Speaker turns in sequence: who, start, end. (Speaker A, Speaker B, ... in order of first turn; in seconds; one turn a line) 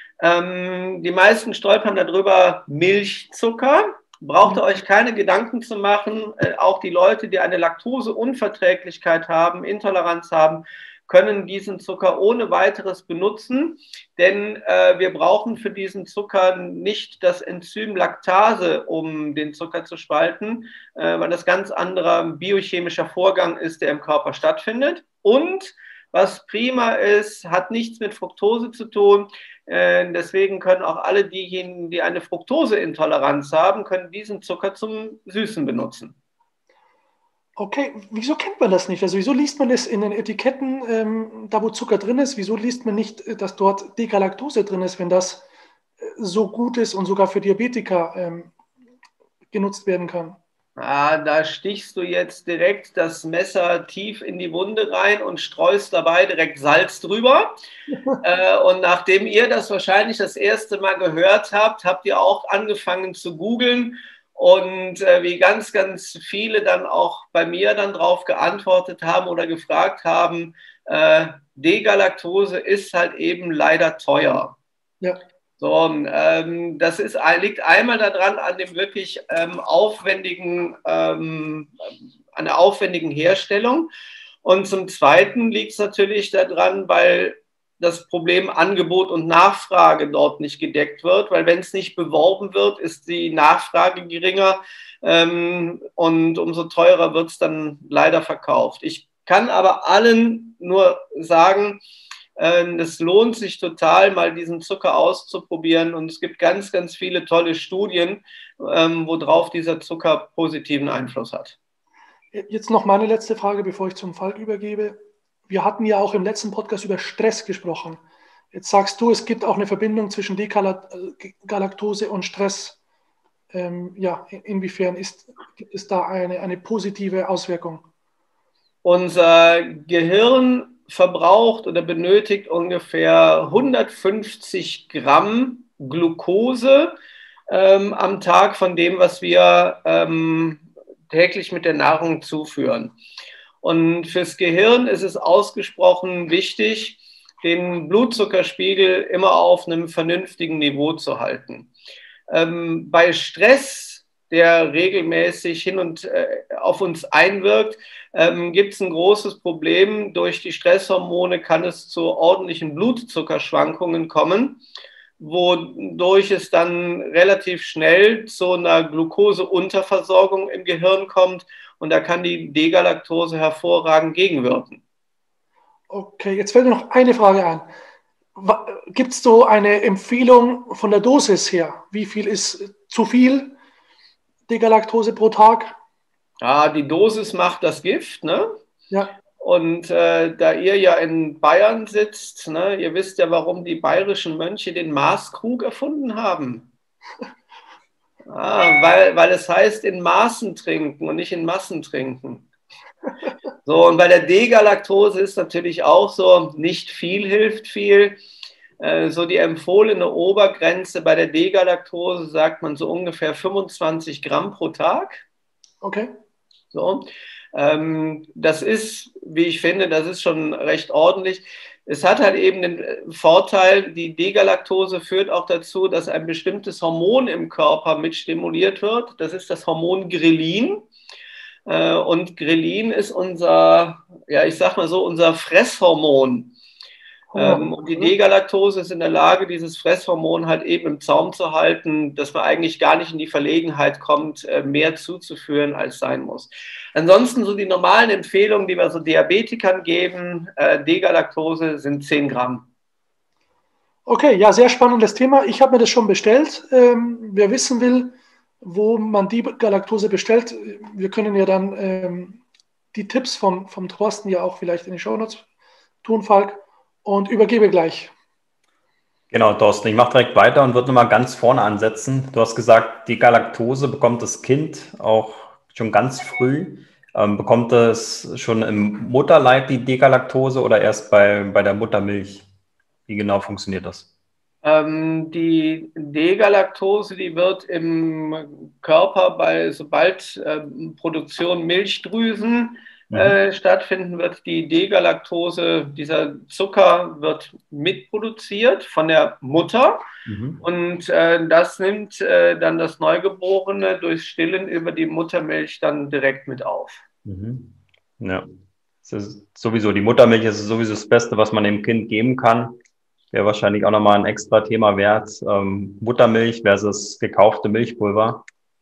Speaker A: 0.2-36.1
Speaker B: 37.6-45.4
Speaker B: 46.0-48.5
Speaker B: 49.5-50.4
Speaker A: 50.8-57.5
Speaker A: 58.2-74.6
Speaker A: 75.6-81.7
Speaker A: 82.3-83.9
Speaker A: 84.4-101.8
Speaker A: 102.4-111.6
Speaker B: 112.3-118.0
Speaker B: 118.5-122.8
Speaker B: 123.5-127.8
Speaker A: 128.8-136.9
Speaker A: 137.5-142.9
Speaker A: 143.6-151.7
Speaker A: 152.3-164.6
Speaker A: 165.2-174.8
Speaker B: 175.9-177.7
Speaker B: 178.4-183.6
Speaker B: 184.5-185.8
Speaker A: 186.4-188.5
Speaker A: 189.4-196.7
Speaker A: 198.3-202.4
Speaker A: 203.6-208.2
Speaker A: 208.8-215.2
Speaker B: 215.8-216.1
Speaker A: 216.7-230.8
Speaker A: 231.7-236.5
Speaker B: 237.3-238.1
Speaker A: 237.3-252.7
Speaker B: 254.1-262.4
Speaker B: 262.9-265.4
Speaker B: 266.0-268.1
Speaker C: 269.3-282.5
Speaker C: 283.1-284.1
Speaker A: 284.6-300.0
Speaker C: 293.1-293.4
Speaker C: 300.3-300.6
Speaker A: 300.6-307.0
Speaker C: 307.3-308.4
Speaker C: 309.0-312.8
Speaker C: 313.3-318.5